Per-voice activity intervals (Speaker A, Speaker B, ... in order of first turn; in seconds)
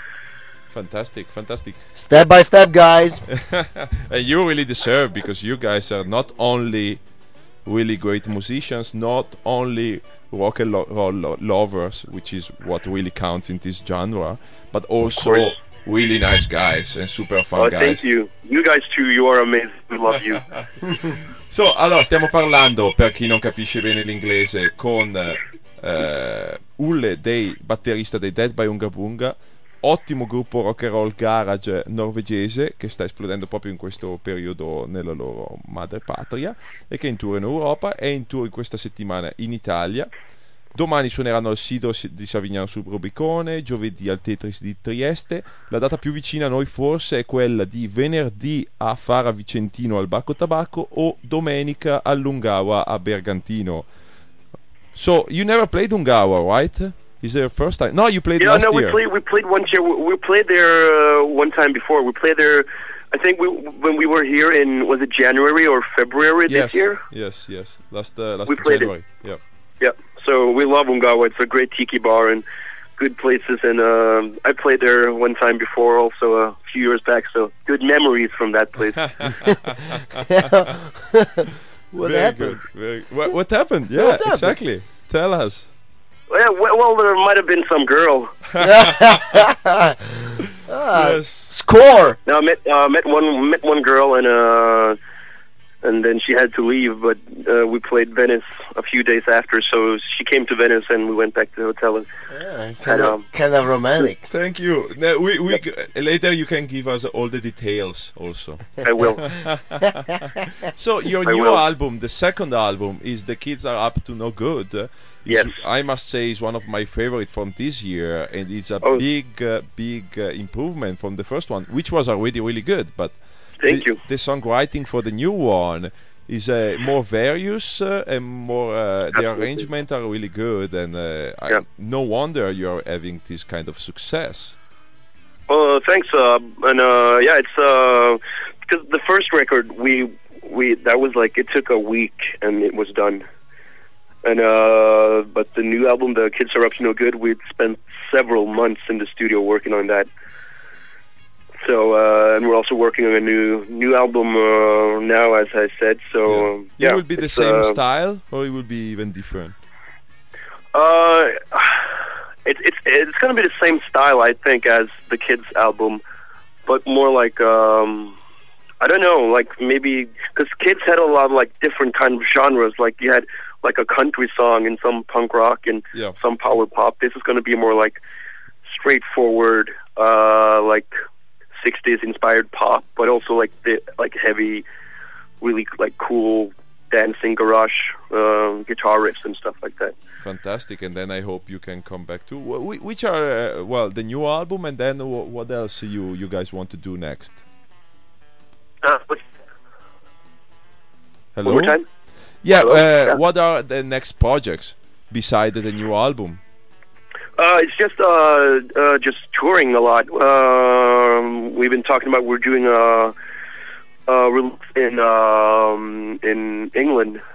Speaker A: 0.7-1.8, 3.4-7.1, 7.6-18.0, 20.8-40.1, 40.7-53.9, 54.9-59.0, 66.5-69.4, 79.0-79.9, 82.0-85.7, 90.9-91.5, 104.3-110.0, 110.6-134.6, 156.3-159.6, 190.2-197.4, 201.3-206.4
Speaker B: 1.9-3.2, 80.5-82.7, 83.9-84.6, 88.6-89.9, 90.7-92.2, 102.3-104.2
Speaker C: 15.0-15.5, 17.6-20.4, 58.4-67.0, 68.5-69.0, 69.8-72.4, 73.0-79.4, 86.3-88.3, 92.2-95.0, 95.8-102.0, 102.8-103.2, 108.8-109.3, 111.2-111.6, 115.2-115.6, 123.6-124.0, 129.1-129.7, 135.5-143.2, 144.2-150.1, 151.6-157.8, 160.7-161.8, 162.4-166.0, 166.7-168.2, 168.8-178.0, 178.6-180.9, 181.6-184.6, 185.4-189.9, 198.8-199.2, 201.4-201.9, 202.5-203.2, 207.4-213.1, 214.1-217.2